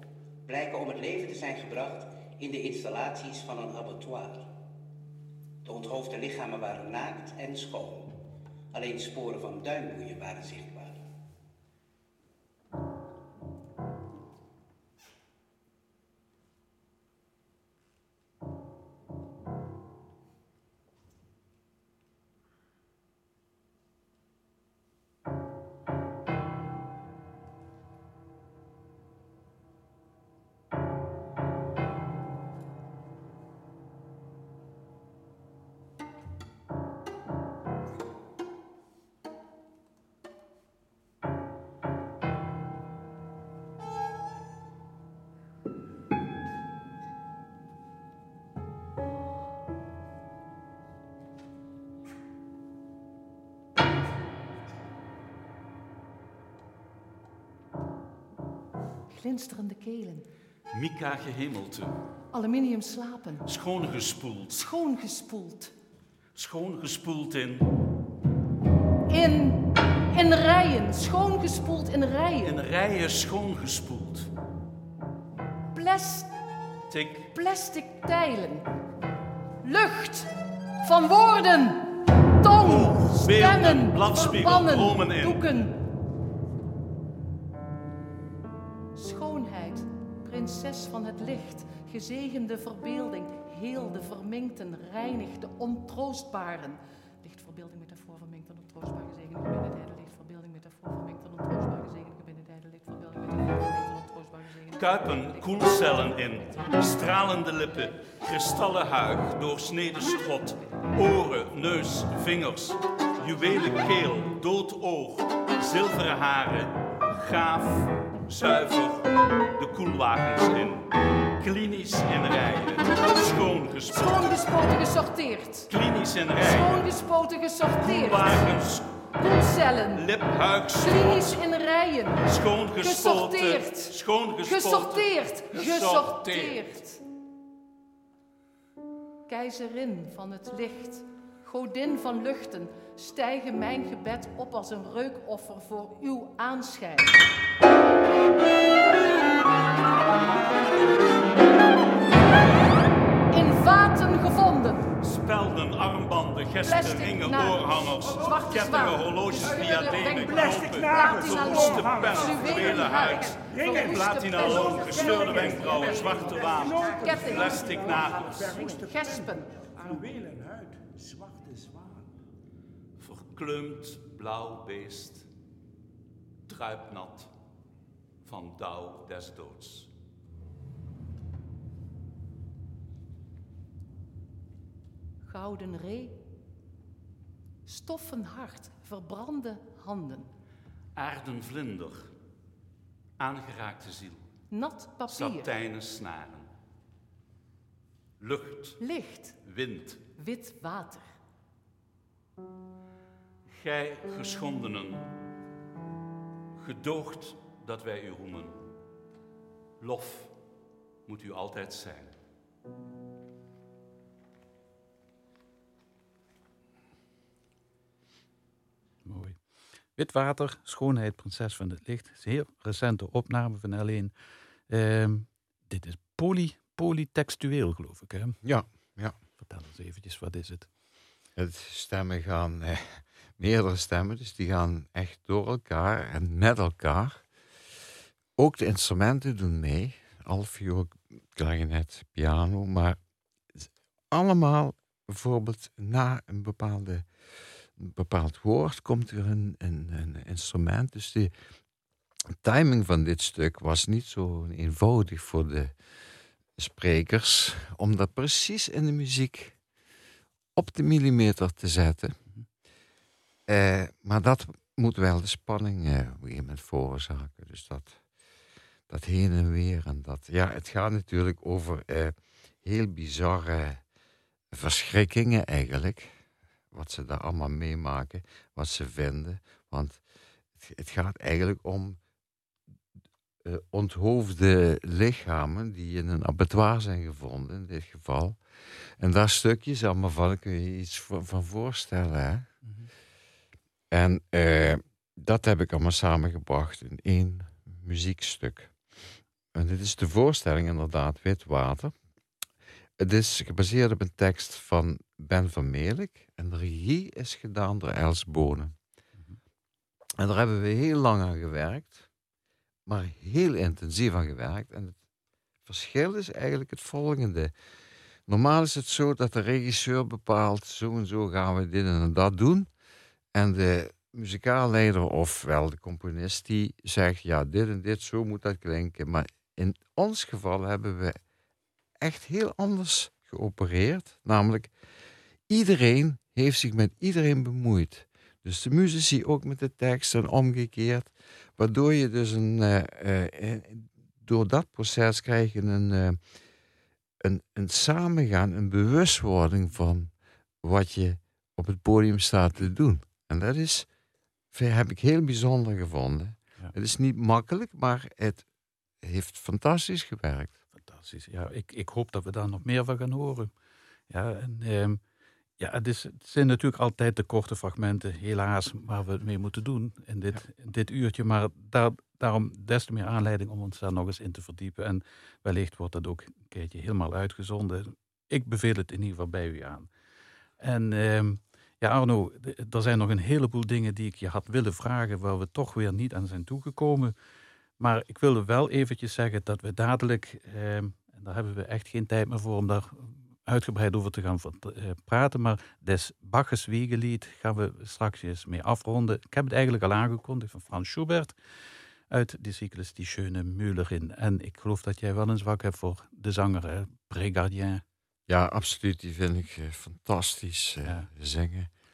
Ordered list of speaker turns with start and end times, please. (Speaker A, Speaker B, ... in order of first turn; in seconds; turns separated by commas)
Speaker A: 0.5-4.5, Speaker A: 5.6-8.1, Speaker A: 8.7-11.0, Speaker B: 59.1-60.2, Speaker C: 60.7-61.9, Speaker B: 62.3-63.5, Speaker C: 63.4-64.7, Speaker B: 64.5-65.7, Speaker C: 66.3-67.7, Speaker B: 69.1-72.6, Speaker C: 72.4-74.3, Speaker B: 75.7-76.3, Speaker C: 76.9-77.3, Speaker B: 77.3-78.6, Speaker B: 79.6-80.3, Speaker B: 80.8-81.8, Speaker B: 82.4-85.8, Speaker C: 82.6-85.5, Speaker B: 88.9-107.4, Speaker C: 104.7-124.5, Speaker B: 123.9-125.7, Speaker C: 125.7-127.0, Speaker B: 126.3-128.5, Speaker C: 127.7-128.9, Speaker B: 129.2-130.1, Speaker C: 129.9-131.4, Speaker B: 130.7-133.9, Speaker C: 132.2-136.6, Speaker B: 134.4-137.0, Speaker B: 139.3-147.2, Speaker B: 153.3-154.9, Speaker C: 155.0-168.7, Speaker B: 156.6-170.0, Speaker C: 173.0-175.3, Speaker C: 176.4-177.3, Speaker C: 178.2-179.9, Speaker B: 185.2-186.2, Speaker B: 187.7-190.3, Speaker C: 190.9-192.1, Speaker C: 193.2-194.3, Speaker B: 194.5-195.5, Speaker C: 195.1-196.5, Speaker C: 198.2-198.8, Speaker B: 198.8-199.4, Speaker C: 199.4-200.0, Speaker B: 200.2-201.2, Speaker C: 203.5-205.1, Speaker C: 206.5-208.7, Speaker C: 209.8-210.4, Speaker C: 211.0-212.2, Speaker D: 219.0-219.4, Speaker D: 219.9-224.1, Speaker D: 224.7-228.4, Speaker E: 228.4-229.2, Speaker D: 229.4-230.7, Speaker E: 231.3-237.2, Speaker E: 238.3-243.0, Speaker E: 243.5-247.1, Speaker E: 247.8-251.3, Speaker E: 252.3-255.7, Speaker E: 256.6-259.6, Speaker E: 260.6-262.2, Speaker E: 263.5-268.0, Speaker E: 268.9-273.8, Speaker E: 274.5-276.2, Speaker E: 276.7-280.0, Speaker E: 280.6-282.0, Speaker E: 283.4-288.4, Speaker E: 289.0-292.5, Speaker D: 292.6-292.9, Speaker E: 293.9-298.7, Speaker E: 299.5-301.9, Speaker E: 303.0-308.8, Speaker E: 310.2-312.1, Speaker E: 312.9-315.0, Speaker E: 315.6-317.5, Speaker E: 318.3-322.7, Speaker E: 323.3-331.2, Speaker E: 332.0-334.7, Speaker E: 335.5-346.2, Speaker E: 347.2-353.9, Speaker E: 354.5-358.5, Speaker E: 359.0-360.6, Speaker D: 360.8-363.5, Speaker D: 364.1-365.0, Speaker D: 365.6-379.9, Speaker D: 380.6-387.1, Speaker D: 387.8-401.4, Speaker D: 402.1-407.8, Speaker E: 408.3-411.7